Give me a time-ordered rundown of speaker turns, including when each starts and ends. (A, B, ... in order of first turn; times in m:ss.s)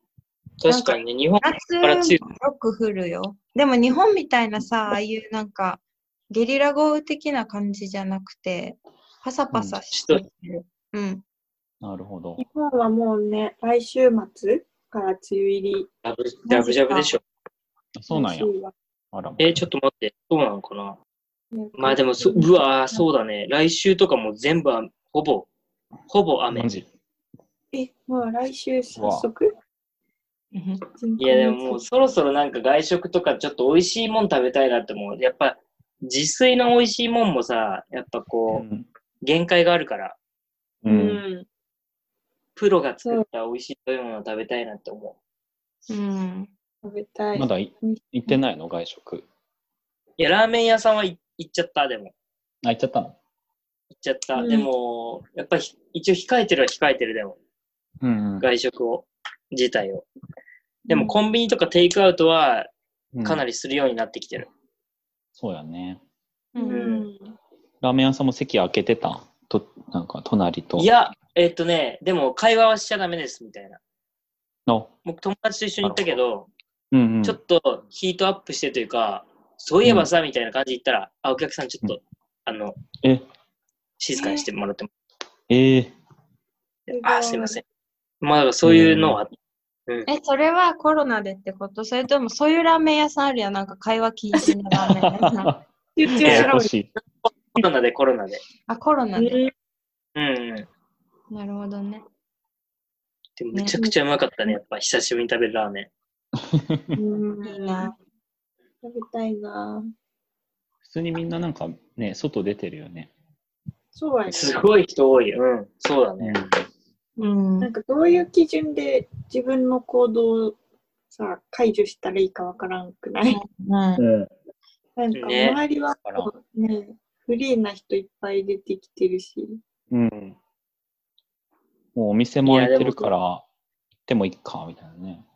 0:00.6-0:02.2 A
0:00.7-0:11.2 B
0:09.9-0:10.2 A
0:11.8-0:12.4 C
0:12.4-0:15.9 D
0:16.0-0:17.2 A
0:16.5-0:17.1 B
0:18.0-0:18.5 C
0:18.1-0:18.7 D
0:19.1-0:19.6 C
0:19.4-0:21.0 A
0:21.5-0:23.0 D
0:21.8-0:25.5 A
0:26.1-0:26.7 A
0:26.5-0:26.9 C
0:27.7-0:29.5 D
0:28.9-0:29.3 C
0:30.5-0:30.8 B
0:31.0-0:31.8 D
0:31.2-0:38.6 A
0:38.5-0:38.9 C
0:39.2-0:40.2 A
0:40.8-0:41.2 C
0:40.9-0:41.4 D
0:42.6-0:45.2 A
0:45.9-0:46.5 B
0:46.8-0:48.4 D
0:47.3-0:49.2 C
0:50.2-0:52.1 A
0:52.6-0:53.2 C
0:53.9-0:57.4 A
0:54.4-0:54.7 D
0:58.0-0:58.5 C
0:58.4-1:00.1 A
1:00.9-1:01.2 D
1:00.9-1:02.7 A
1:03.1-1:03.4 C
1:03.2-1:04.5 A
1:05.4-1:06.0 C
1:06.5-1:06.9 B
1:06.6-1:07.3 D
1:06.7-1:07.1 A
1:07.8-1:10.9 C
1:10.8-1:13.8 A
1:14.7-1:14.9 C
1:15.0-1:16.5 A
1:15.8-1:16.2 C
1:16.9-1:17.4 C
1:17.2-1:22.8 A
1:24.0-1:24.9 A
1:24.2-1:24.5 D
1:25.5-1:25.9 C
1:26.9-1:27.6 D
1:26.9-1:27.6 A
1:28.2-1:29.3 A
1:28.6-1:29.2 C
1:30.0-1:35.5 B
1:35.0-1:36.9 C
1:36.0-1:36.7 D
1:36.2-1:36.5 A
1:37.5-1:38.4 A
1:38.7-1:39.4 B
1:39.1-1:39.5 D
1:40.2-1:40.7 A
1:41.3-1:42.0 B
1:43.4-1:45.9 A
1:43.5-1:43.8 B
1:46.4-1:47.0 C
1:46.9-1:47.9 D
1:47.4-1:47.9 B
1:48.8-1:49.8 D
1:50.8-1:53.1 C
1:53.9-1:54.6 D
1:54.3-1:56.4 A
1:56.2-1:56.6 C
1:57.2-1:57.7 B
1:57.6-2:00.6 D
2:01.1-2:03.4 D
2:03.3-2:04.0 B
2:04.0-2:04.3 C
2:05.0-2:09.6 D
2:05.1-2:05.6 A
2:09.9-2:10.4 C
2:11.9-2:13.4 C
2:12.4-2:13.1 A
2:14.1-2:15.2 C